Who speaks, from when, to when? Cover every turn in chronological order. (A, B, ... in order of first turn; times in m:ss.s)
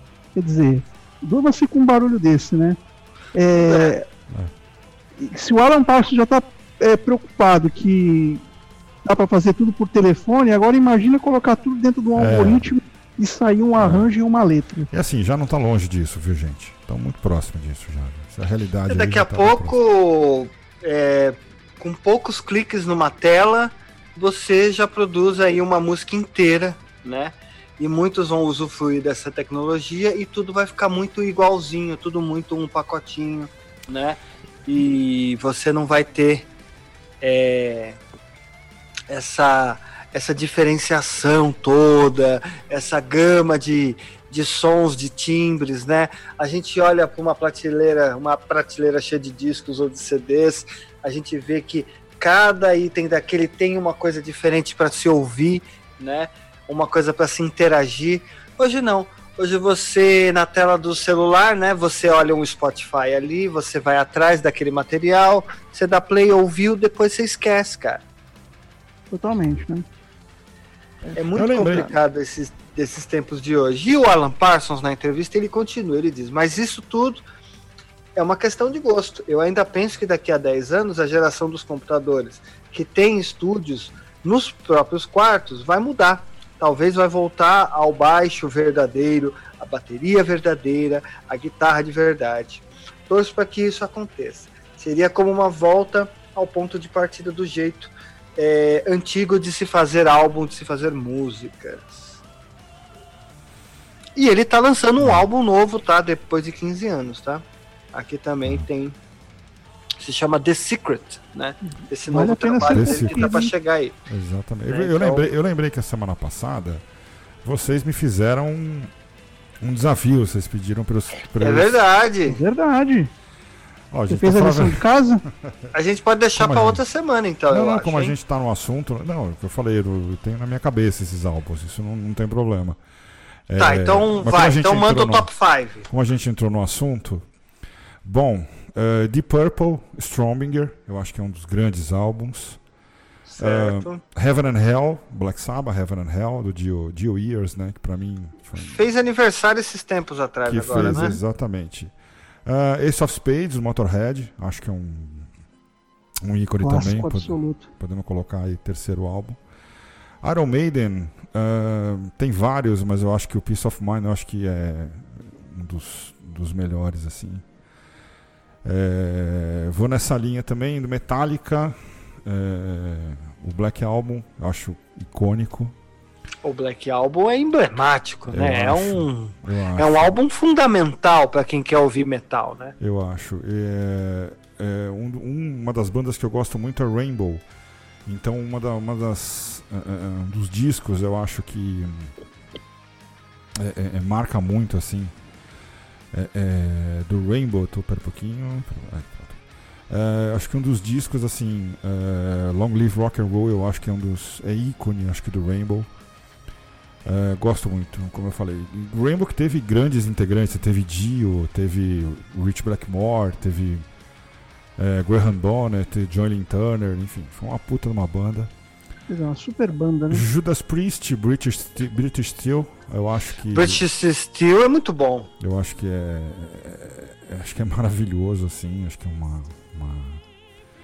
0:00.4-0:02.8 A
0:03.3-0:04.1 A
0:05.2-0:08.4 A
0:09.0-0:14.9 A
0:12.2-0:12.7 B
0:13.8-0:14.1 B
0:14.9-0:19.8 B
0:18.9-0:36.5 C
0:37.2-0:38.0 C
0:39.1-1:08.0 C
1:09.1-1:09.8 A
1:11.0-1:11.9 A
1:11.2-1:17.2 C
1:11.3-1:11.9 B
1:18.2-1:42.2 C
1:44.2-1:49.0 C
1:45.0-1:45.3 B
1:50.0-1:54.0 C
1:52.1-1:53.5 A
1:52.7-1:53.3 B
1:54.1-1:56.8 B
1:54.7-1:55.3 C
1:57.4-1:58.9 B
1:59.6-2:01.8 B
2:01.4-2:02.4 C
2:02.2-2:03.1 A
2:03.9-2:04.8 B
2:04.1-2:05.2 A
2:05.7-2:08.1 C
2:06.4-2:06.8 B
2:07.5-2:12.8 B
2:13.5-2:15.3 B
2:13.6-2:15.9 C
2:15.9-2:17.2 B
2:18.0-2:22.6 B
2:23.3-2:24.0 C
2:23.4-2:28.8 B
2:28.6-2:31.2 C
2:30.4-2:31.9 B
2:32.4-2:35.3 B
2:36.2-2:39.4 B
2:36.6-2:37.7 A
2:40.2-2:47.4 B
2:48.6-2:55.8 B
2:56.4-3:02.8 C
2:58.3-3:00.1 B
3:02.8-3:07.4 B
3:08.1-3:12.1 B
3:13.6-3:15.1 B
3:16.1-3:25.9 B
3:27.0-3:33.9 B
3:34.8-3:38.5 B
3:39.1-3:40.2 A
3:40.1-3:43.8 B
3:43.5-3:45.3 C
3:45.4-3:50.2 B